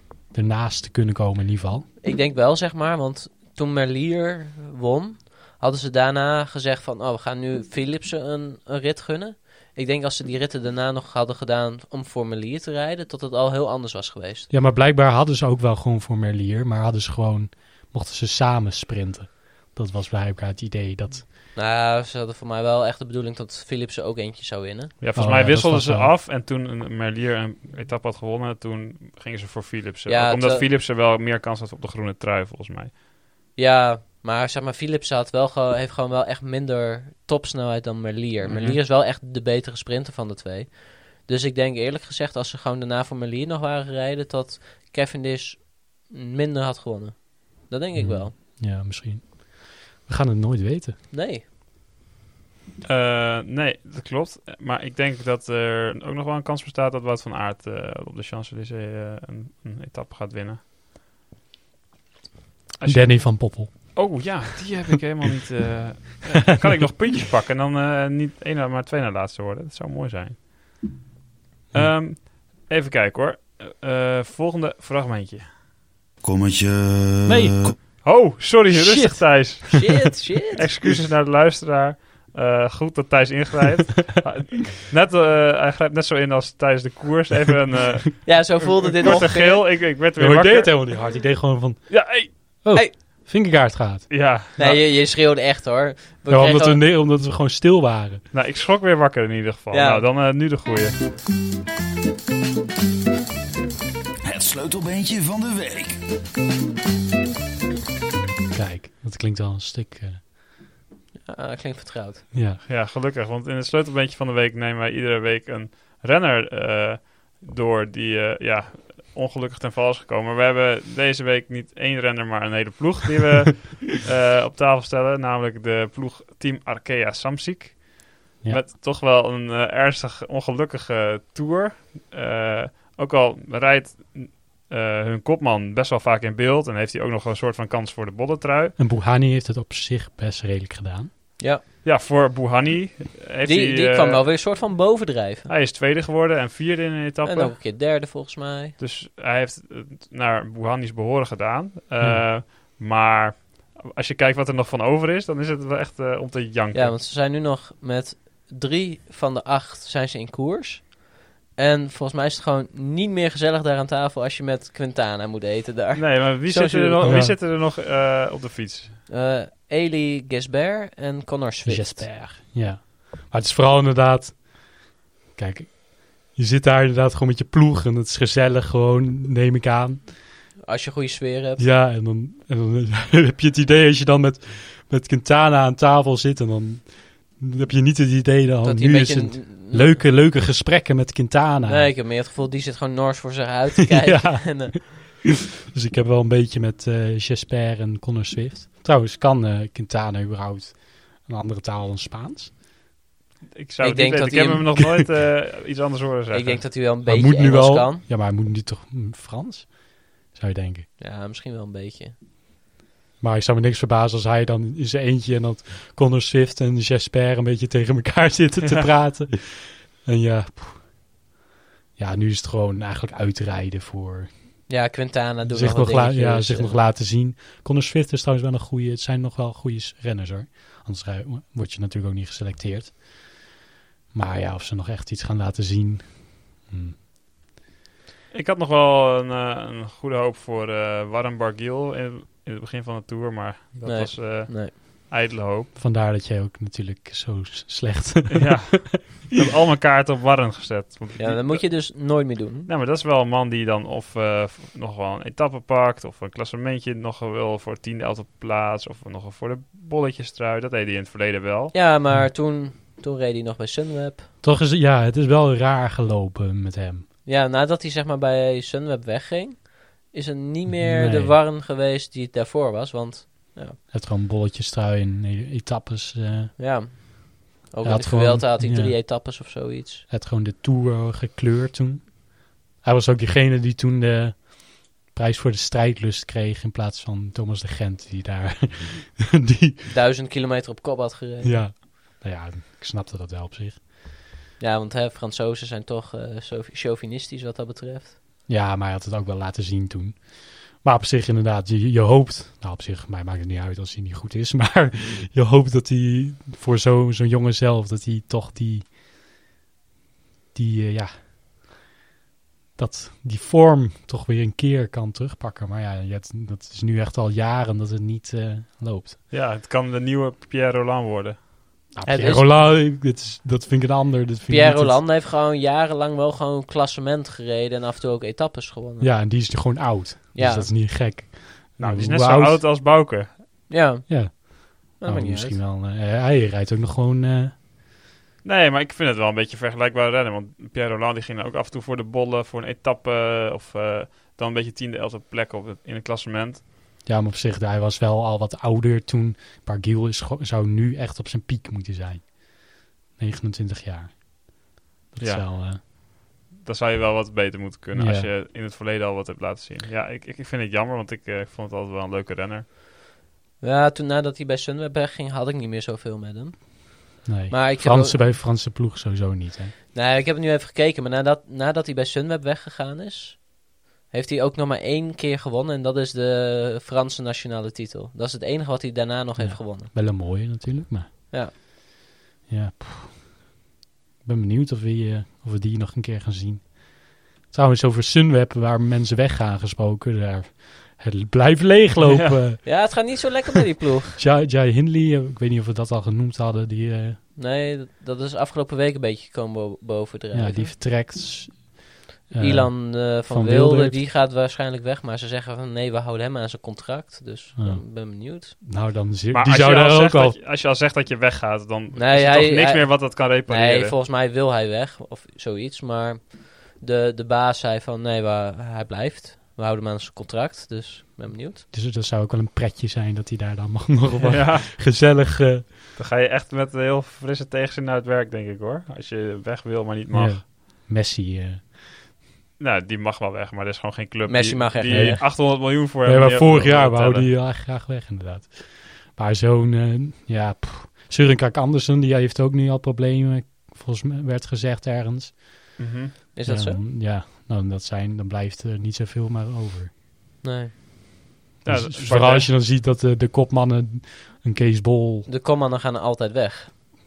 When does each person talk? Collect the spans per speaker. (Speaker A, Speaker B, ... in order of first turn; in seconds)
Speaker A: 0.3-1.9, 14.5-21.2, 25.1-26.1, 47.9-51.0, 62.8-64.4, 71.7-72.0, 77.2-77.8, 90.2-94.2, 96.3-98.2, 108.5-110.2, 112.3-112.6, 138.8-141.1, 152.0-152.3, 167.0-167.3, 171.6-180.1, 181.6-191.9, 193.9-195.2, 195.7-202.5, 207.0-210.9, 213.2-221.0, 222.0-224.3, 225.5-233.5, 234.1-237.0, 245.7-249.1, 264.4-267.1, 270.7-271.4, 273.9-277.0, 277.8-279.4, 280.1-289.9, 291.4-293.8, 298.5-309.0, 310.5-311.7, 312.8-319.2, 321.9-325.0, 329.0-332.6, 334.1-337.6, 347.0-355.8, 357.9-358.3, 367.2-369.7, 379.4-381.6, 382.5-383.5, 384.2-393.3, 394.2-397.2, 400.3-404.0, 407.6-410.4, 421.7-425.7, 430.1-431.7, 434.9-445.8, 446.4-449.9, 451.6-455.3
Speaker B: 2.0-14.5, 21.5-24.9, 30.1-30.7, 33.5-48.3, 51.1-51.4, 78.7-80.7, 88.2-89.7, 94.6-96.8, 99.7-100.0, 111.2-112.2, 143.4-145.5, 147.2-148.7, 156.7-167.2, 169.1-172.1, 180.7-181.7, 188.6-190.0, 191.7-194.8, 203.8-204.7, 206.3-208.0, 211.0-212.1, 224.7-226.8, 243.8-244.7, 251.2-252.7, 261.7-264.3, 267.2-273.8, 276.6-280.0, 289.9-291.6, 294.6-298.1, 322.0-322.5, 324.5-329.1, 330.3-330.7, 333.7-335.6, 363.6-368.2, 369.9-379.9, 392.6-394.2, 397.4-400.7, 402.4-408.5, 411.9-421.6, 434.3-435.2, 446.3-446.8, 450.4-450.7, 455.2-456.7
Speaker C: 25.0-32.9, 38.4-38.8, 52.8-60.6, 62.8-70.4, 71.7-75.5, 78.0-91.0, 91.9-92.3, 94.1-94.9, 98.3-101.0, 112.6-138.7, 141.8-144.2, 145.5-147.6, 148.8-156.9, 165.9-169.0, 203.5-206.7, 238.3-245.7, 248.3-251.9, 252.7-261.7, 319.3-321.4, 331.8-333.6, 338.4-346.6, 355.2-362.6, 392.0-392.4, 409.3-413.9, 424.2-424.7, 425.9-430.4, 432.6-437.3, 445.8-446.1, 451.6-452.5
Speaker D: 76.2-77.8, 104.2-106.0